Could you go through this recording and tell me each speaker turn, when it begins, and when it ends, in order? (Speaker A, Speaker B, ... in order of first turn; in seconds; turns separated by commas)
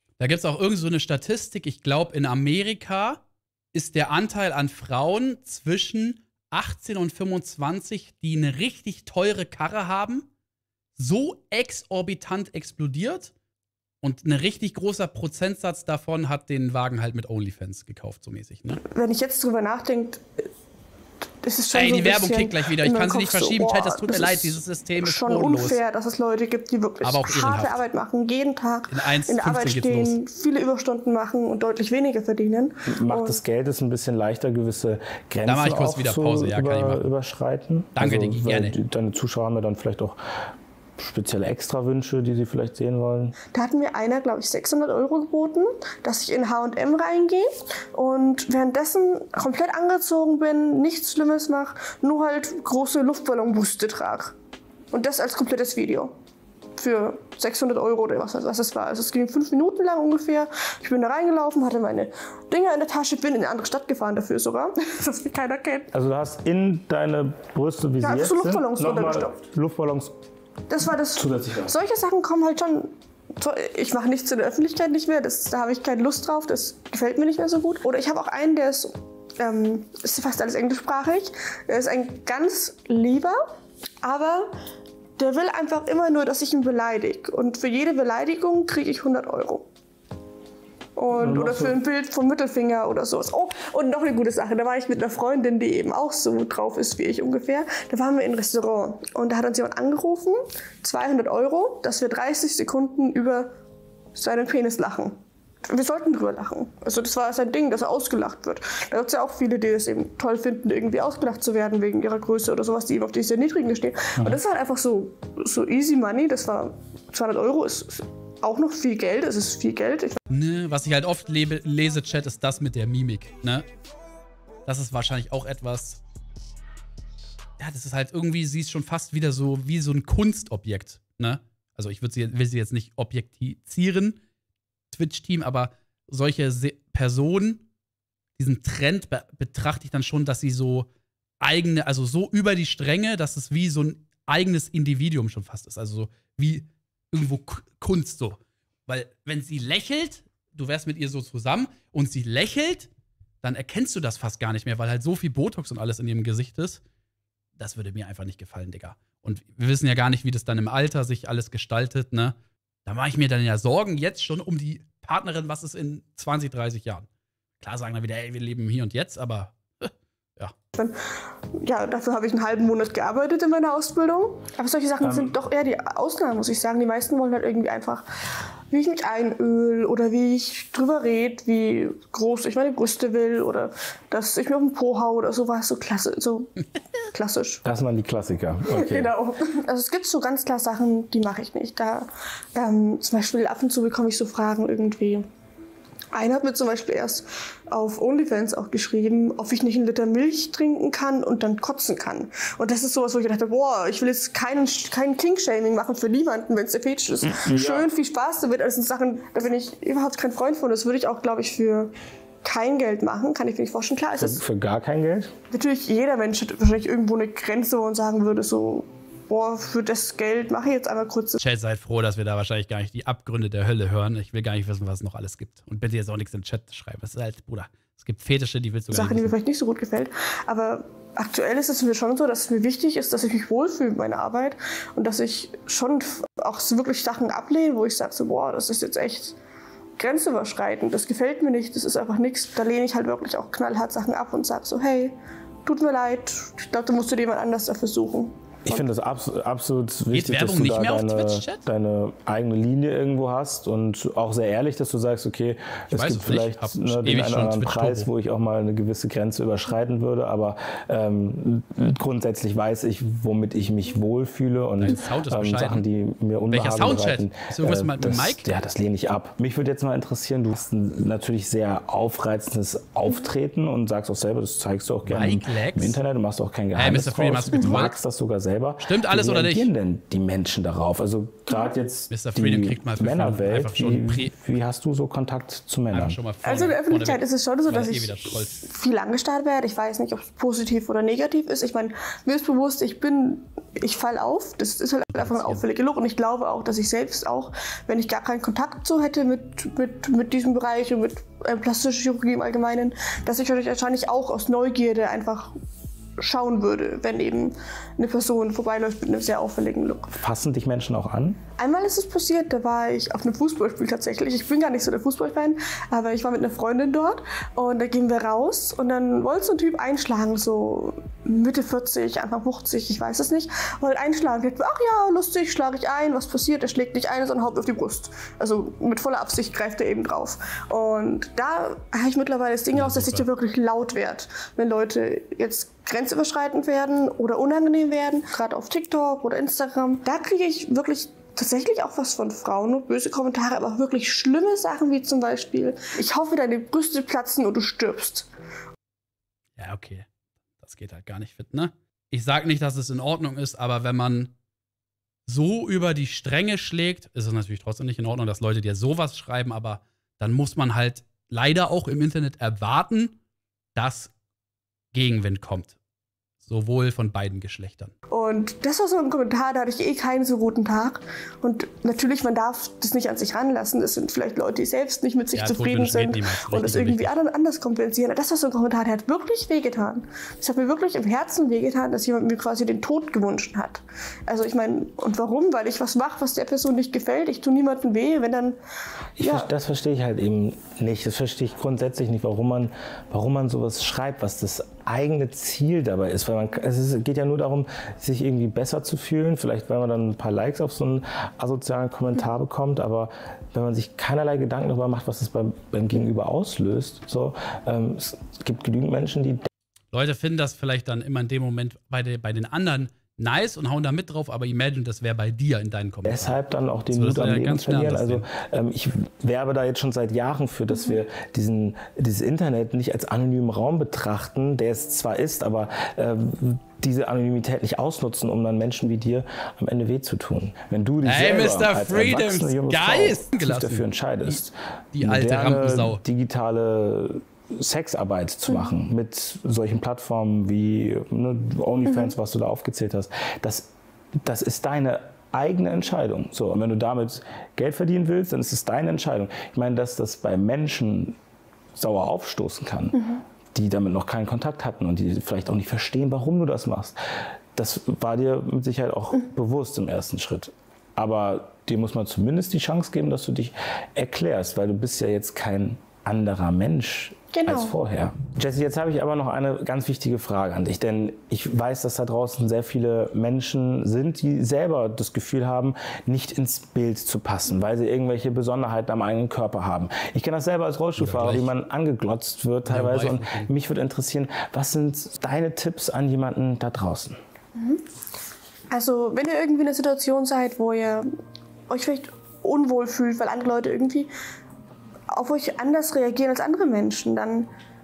Speaker A: 0.2-3.2, Speaker A: 3.7-10.2, Speaker A: 10.9-13.3, Speaker A: 14.0-18.8, Speaker B: 18.8-20.4, Speaker B: 21.4-33.4, Speaker A: 21.7-25.8, Speaker A: 27.0-27.8, Speaker A: 28.9-30.2, Speaker C: 32.9-40.2, Speaker A: 35.5-37.0, Speaker A: 38.0-38.7, Speaker C: 41.0-43.4, Speaker B: 43.5-54.3, Speaker B: 54.9-56.1, Speaker B: 56.8-65.9, Speaker C: 65.9-70.1, Speaker B: 68.0-69.4, Speaker B: 70.7-83.4, Speaker C: 71.1-71.8, Speaker B: 84.0-84.5, Speaker B: 85.2-89.7, Speaker B: 91.0-103.5, Speaker C: 91.1-91.8, Speaker B: 104.1-105.1, Speaker B: 105.7-120.2, Speaker A: 120.3-123.6, Speaker A: 124.7-126.0, Speaker A: 127.6-134.2, Speaker A: 134.9-137.6, Speaker A: 138.4-140.9, Speaker A: 141.4-152.9, Speaker A: 153.4-156.8, Speaker A: 157.6-162.3, Speaker A: 162.8-167.1, Speaker A: 167.6-170.5, Speaker B: 171.5-178.0, Speaker C: 175.0-175.4, Speaker B: 178.7-187.6, Speaker C: 187.6-189.1, Speaker B: 188.7-195.2, Speaker B: 196.1-211.9, Speaker C: 207.2-207.9, Speaker B: 212.4-214.4, Speaker C: 214.2-215.3, Speaker B: 215.5-221.4, Speaker A: 221.4-229.3, Speaker B: 228.9-239.3, Speaker B: 240.0-245.1, Speaker B: 245.7-248.8, Speaker C: 248.6-286.2, Speaker A: 250.1-251.6, Speaker A: 255.9-258.1, Speaker A: 264.8-265.8, Speaker A: 266.5-268.4, Speaker A: 275.1-276.0, Speaker A: 276.8-278.0, Speaker A: 278.8-279.7, Speaker A: 282.1-284.3, Speaker A: 285.9-288.7, Speaker B: 286.4-305.5, Speaker A: 295.1-295.6, Speaker B: 306.2-310.1, Speaker C: 310.1-311.4, Speaker B: 311.6-348.3, Speaker A: 332.7-333.3, Speaker A: 349.6-350.1, Speaker A: 350.6-354.3, Speaker A: 355.3-363.1, Speaker A: 363.7-364.1, Speaker A: 364.9-365.8, Speaker A: 366.4-367.9, Speaker B: 368.1-388.6, Speaker A: 375.3-377.1, Speaker C: 389.2-409.5, Speaker B: 389.2-389.5, Speaker A: 409.9-416.4, Speaker C: 416.0-451.2, Speaker A: 416.9-418.2, Speaker A: 431.0-434.4, Speaker A: 434.9-436.0, Speaker C: 451.7-456.9, Speaker C: 457.5-487.2, Speaker B: 467.3-467.7, Speaker A: 481.0-481.5, Speaker A: 482.6-483.5, Speaker B: 487.5-487.8, Speaker B: 488.7-491.1, Speaker B: 491.7-494.1, Speaker B: 495.1-497.5